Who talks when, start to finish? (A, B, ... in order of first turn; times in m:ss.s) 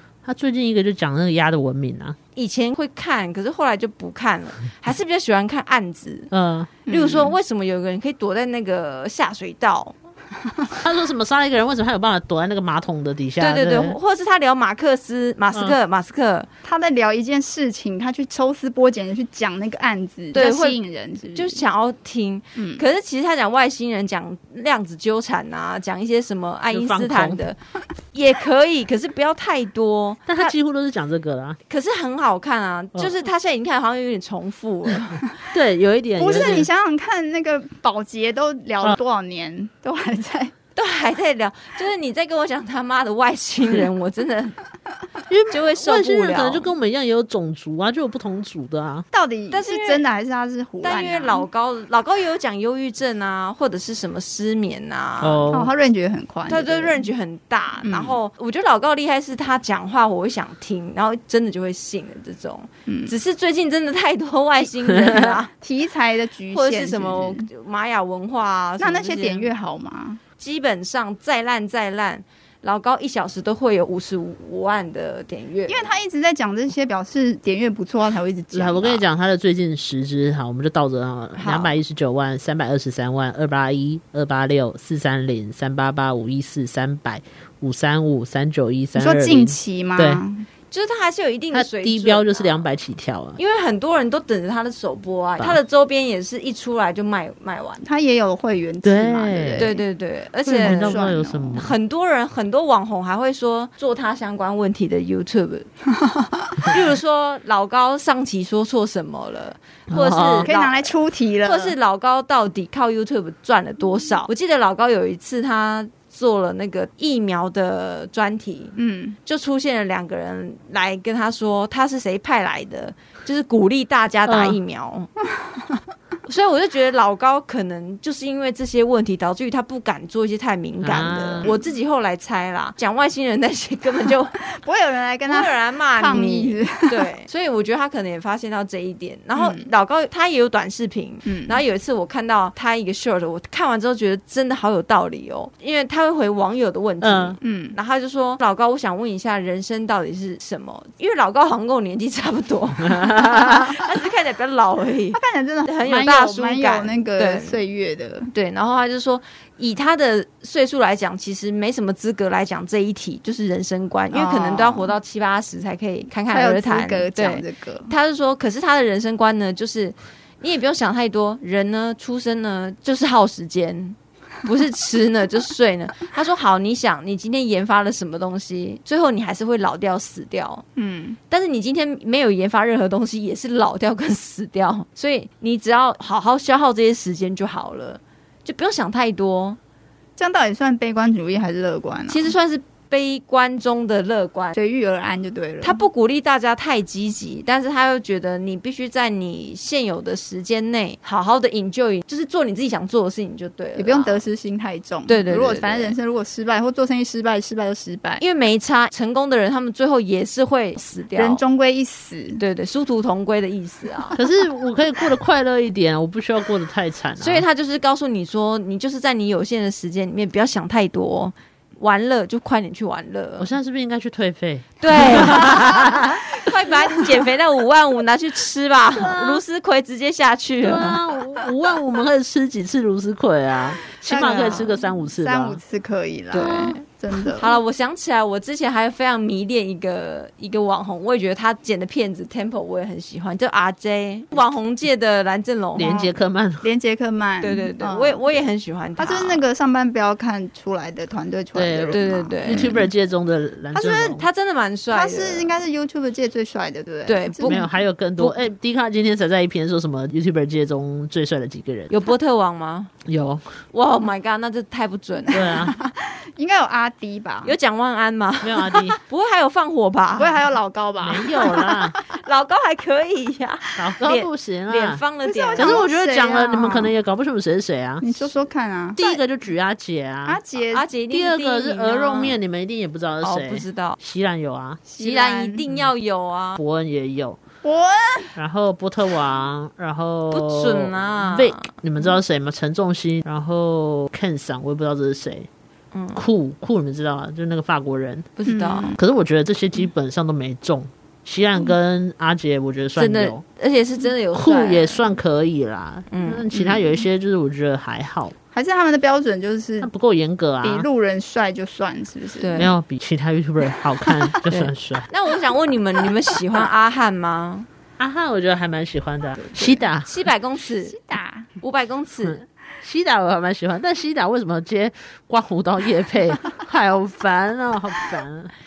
0:00.2-0:02.2 A
0:02.4-0:06.3 B
0:06.3-0:06.7 A
0:06.9-0:07.4 C
0:06.9-0:10.0 B
0:10.8-0:14.0 A
0:13.4-0:16.5 B
0:16.6-0:21.6 C
0:20.3-0:20.8 B
0:21.3-0:27.6 B
0:22.6-0:22.8 C
0:26.7-0:27.5 A
0:28.1-0:30.6 B
0:30.3-0:31.6 A
0:31.7-0:35.2 B
0:35.5-0:36.7 A
0:36.2-0:40.5 C
0:40.8-0:44.6 B
0:45.3-0:49.1 A
0:45.5-0:46.8 B
0:49.1-0:51.5 C
0:49.5-0:50.0 B
0:50.8-0:55.5 B
0:55.2-0:55.7 A
0:55.5-0:57.1 C
0:56.5-1:05.5 B
0:57.8-0:58.2 C
1:02.9-1:03.1 C
1:04.9-1:05.3 A
1:05.5-1:07.5 C
1:06.5-1:09.5 B
1:08.8-1:10.2 C
1:10.4-1:15.9 B
1:15.7-1:19.0 C
1:18.5-1:30.2 A
1:21.4-1:21.8 B
1:29.0-1:30.5 C
1:30.7-1:32.7 B
1:31.5-1:33.4 A
1:33.4-1:37.9 B
1:37.8-1:39.8 C
1:38.8-1:39.7 A
1:39.6-1:45.7 B
1:40.4-1:41.8 A
1:40.5-1:41.6 C
1:46.0-1:46.7 C
1:46.6-2:05.1 B
1:49.9-1:50.5 A
1:50.4-1:51.8 C
1:58.8-1:59.2 C
2:04.3-2:04.6 A
2:06.3-2:14.4 B
2:10.8-2:11.5 A
2:11.4-2:11.7 C
2:14.5-2:17.1 C
2:15.3-2:37.6 B
2:19.4-2:19.7 C
2:21.2-2:21.6 C
2:27.0-2:27.4 A
2:27.4-2:27.8 C
2:32.9-2:33.5 A
2:35.1-2:38.3 C
2:38.3-3:00.6 B
2:44.1-2:45.0 C
2:46.3-2:47.9 C
3:00.8-3:01.2 C
3:01.3-3:09.6 B
3:10.2-3:12.4 C
3:12.1-3:14.6 B
3:14.5-3:15.8 C
3:15.6-3:24.2 B
3:23.8-3:28.2 C
3:25.1-3:26.0 B
3:28.2-3:31.4 B
3:31.2-3:32.4 C
3:32.4-3:34.2 B
3:34.2-3:37.4 A
3:37.2-3:43.5 B
3:43.4-3:46.2 A
3:44.8-3:51.0 B
3:49.0-3:49.4 A
3:50.6-3:55.6 A
3:54.1-3:57.6 C
3:54.1-3:54.8 B
3:56.3-4:06.0 B
3:56.4-3:56.8 A
4:05.8-4:06.7 A
4:05.8-4:12.9 C
4:07.4-4:09.4 B
4:11.6-4:14.3 A
4:11.9-4:12.8 B
4:13.7-4:14.2 C
4:14.2-4:15.6 B
4:14.9-4:17.9 C
4:17.1-4:17.7 B
4:17.5-4:21.9 A
4:18.2-4:18.4 B
4:21.9-4:22.9 B
4:23.1-4:23.6 A
4:23.7-4:25.5 B
4:25.3-4:25.8 A
4:25.4-4:27.6 C
4:27.4-4:30.5 B
4:28.4-4:29.0 A
4:30.2-4:31.9 C
4:31.0-4:32.0 A
4:32.0-4:35.8 B
4:33.8-4:35.0 A
4:35.2-4:37.0 C
4:35.6-4:38.3 A
4:38.0-4:39.0 C
4:39.0-4:40.4 A
4:40.2-4:40.9 C
4:40.7-4:42.4 B
4:41.1-4:44.8 A
4:43.2-4:44.0 B
4:44.8-4:45.6 C
4:45.0-4:46.6 B
4:46.6-4:47.4 A
4:47.6-4:48.4 C
4:48.4-4:55.5 A
4:50.3-4:51.7 B
4:55.9-4:56.2 B
4:56.2-4:58.3 A
4:58.4-4:59.0 B
4:58.5-4:59.0 C
4:59.0-5:03.4 A
5:03.0-5:05.1 B
5:04.3-5:08.4 A
5:06.1-5:06.5 B
5:06.5-5:06.9 C
5:08.5-5:09.9 C
5:09.8-5:10.9 A
5:10.6-5:12.7 C
5:12.4-5:12.7 B
5:12.6-5:15.0 A
5:14.5-5:17.7 B
5:18.0-5:20.1 A
5:19.4-5:19.8 C
5:20.0-5:21.0 B
5:20.8-5:21.5 C
5:21.6-5:22.4 B
5:22.2-5:28.5 A